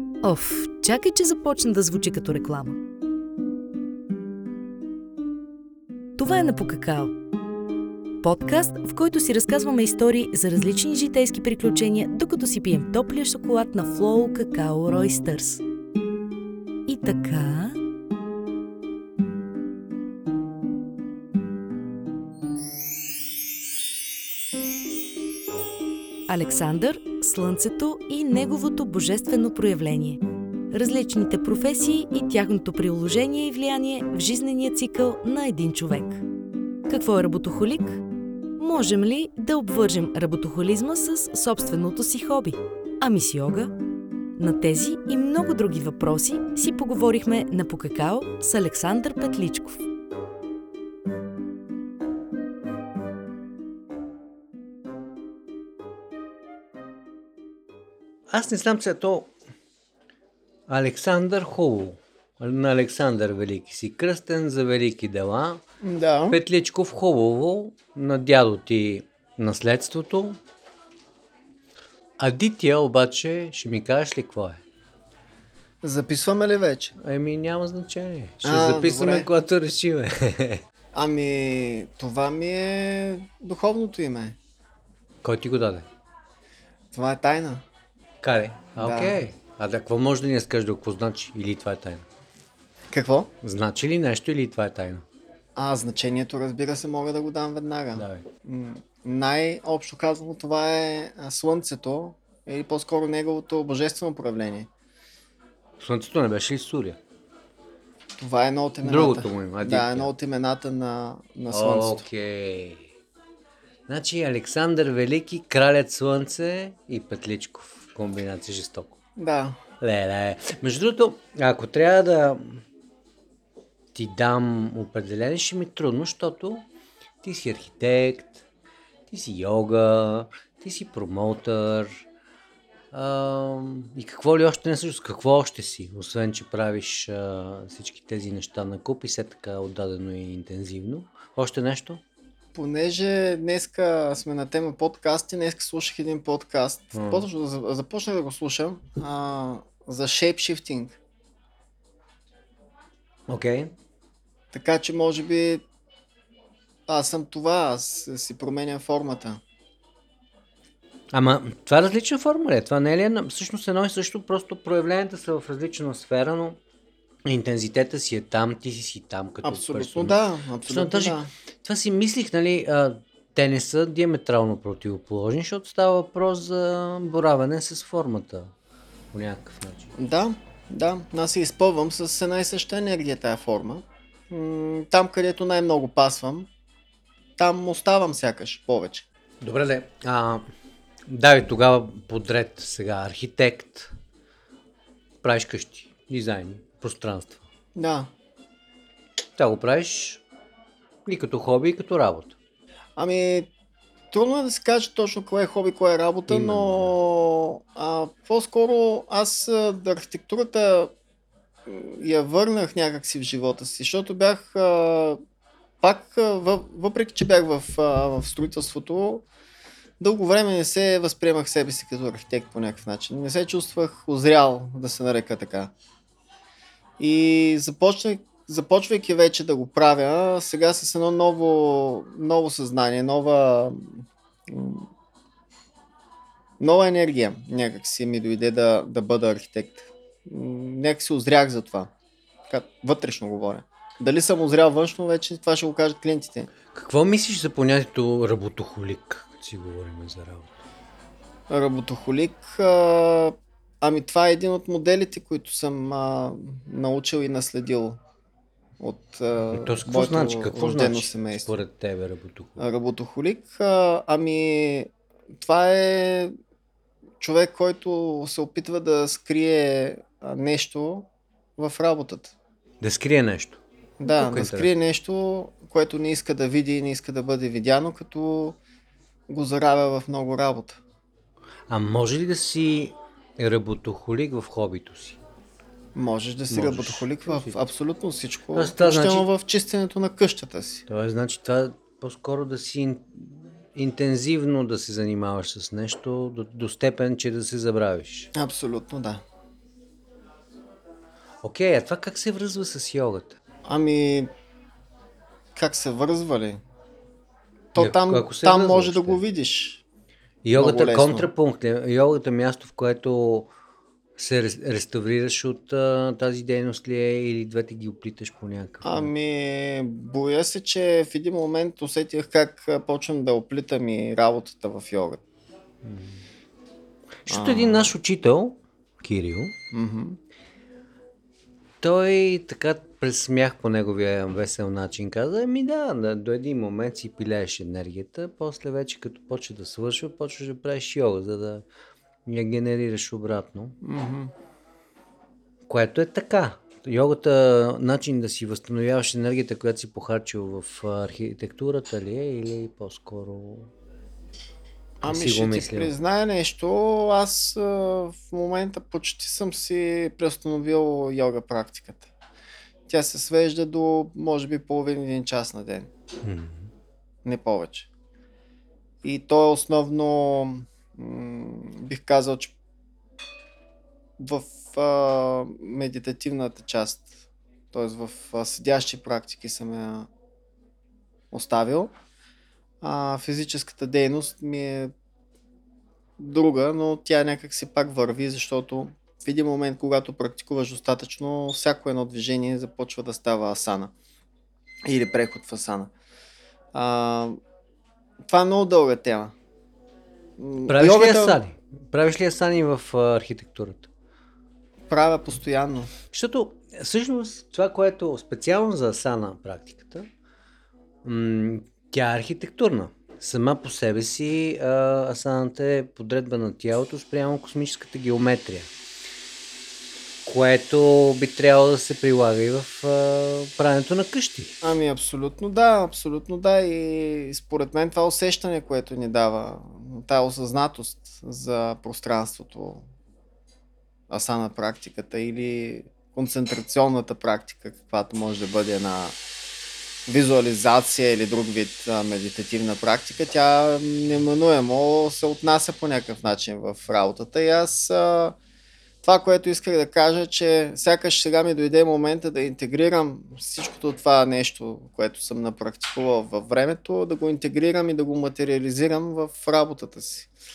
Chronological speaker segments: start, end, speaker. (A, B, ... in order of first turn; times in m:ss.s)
0:00.2-0:02.8 A
0:06.2-0:07.1 A
0:08.2-0:15.6 A
0:16.9-0:17.8 A
0:26.3-0:30.2 A
0:30.7-0:36.2 A
0:36.9-0:38.0 A
0:38.6-0:43.7 A
0:44.4-0:49.8 A
0:58.3-0:59.3 B
1:00.7-1:05.6 B
1:05.8-1:06.4 C
1:06.3-1:10.4 B
1:12.2-1:14.6 B
1:15.8-1:17.0 C
1:17.0-1:20.6 B
1:18.4-1:19.3 C
1:20.9-1:24.4 C
1:25.2-1:25.9 B
1:26.9-1:27.6 C
1:28.2-1:32.0 B
1:28.8-1:29.2 C
1:32.9-1:33.3 C
1:33.4-1:35.1 B
1:35.6-1:44.7 C
1:38.0-1:38.2 B
1:45.8-1:47.0 B
1:48.2-1:52.1 C
1:48.8-1:50.1 B
1:51.5-1:52.9 B
1:53.9-1:59.0 B
1:59.2-1:59.6 C
1:59.8-2:02.6 B
2:04.0-2:06.6 B
2:07.2-2:08.4 B
2:09.1-2:12.0 B
2:12.9-2:22.0 B
2:22.5-2:31.0 C
2:26.9-2:27.3 B
2:33.3-2:33.7 B
2:34.5-2:35.6 C
2:36.9-2:39.4 C
2:41.1-2:46.6 B
2:47.3-2:58.5 B
2:49.4-2:51.3 C
2:59.1-2:59.9 B
3:00.0-3:06.5 C
3:07.4-3:09.1 C
3:09.4-3:10.4 B
3:11.1-3:13.9 B
3:15.2-3:17.4 B
3:17.8-3:18.1 C
3:19.4-3:20.2 B
3:21.1-3:22.4 B
3:23.0-3:23.5 C
3:24.1-3:30.9 C
3:26.3-3:26.9 B
3:31.7-3:35.2 C
3:35.8-3:39.3 C
3:40.0-3:45.7 C
3:47.0-3:54.9 C
3:56.6-4:01.9 C
4:02.5-4:06.5 C
4:06.7-4:10.6 B
4:11.5-4:18.0 C
4:18.8-4:21.5 C
4:19.5-4:22.6 B
4:22.6-4:26.3 C
4:27.2-4:32.4 C
4:32.8-4:34.7 B
4:34.0-4:38.6 C
4:39.3-4:40.8 C
4:41.7-4:45.2 B
4:46.0-4:50.8 C
4:46.5-4:47.6 B
4:48.5-4:49.3 B
4:50.9-4:58.3 B
4:58.3-4:59.2 C
5:01.4-5:03.4 B
5:03.6-5:04.3 C
5:05.6-5:06.6 C
5:07.7-5:09.8 C
5:07.8-5:09.2 B
5:10.4-5:13.5 B
5:10.6-5:11.3 C
5:14.2-5:19.1 B
5:18.8-5:25.2 C
5:25.8-5:26.2 B
5:27.2-5:29.6 B
5:27.3-5:28.0 C
5:29.7-5:30.2 C
5:31.8-5:41.6 B
5:42.3-5:43.8 B
5:43.8-5:44.3 C
5:45.7-5:53.7 B
5:55.0-6:02.1 C
5:55.0-5:55.9 B
6:02.9-6:05.9 C
6:06.2-6:06.7 B
6:07.2-6:07.9 C
6:09.0-6:12.5 C
6:14.2-6:17.1 C
6:17.7-6:20.1 C
6:21.3-6:21.9 C
6:22.8-6:24.9 C
6:26.2-6:33.9 C
6:34.8-6:35.9 C
6:36.7-6:37.4 C
6:38.3-6:39.4 C
6:40.4-6:41.4 C
6:40.7-6:43.9 B
6:44.9-6:45.9 C
6:46.1-6:50.1 B
6:51.0-6:58.7 B
7:00.2-7:04.6 B
7:04.6-7:12.8 C
7:14.1-7:19.2 C
7:20.1-7:28.4 C
7:29.0-7:40.3 C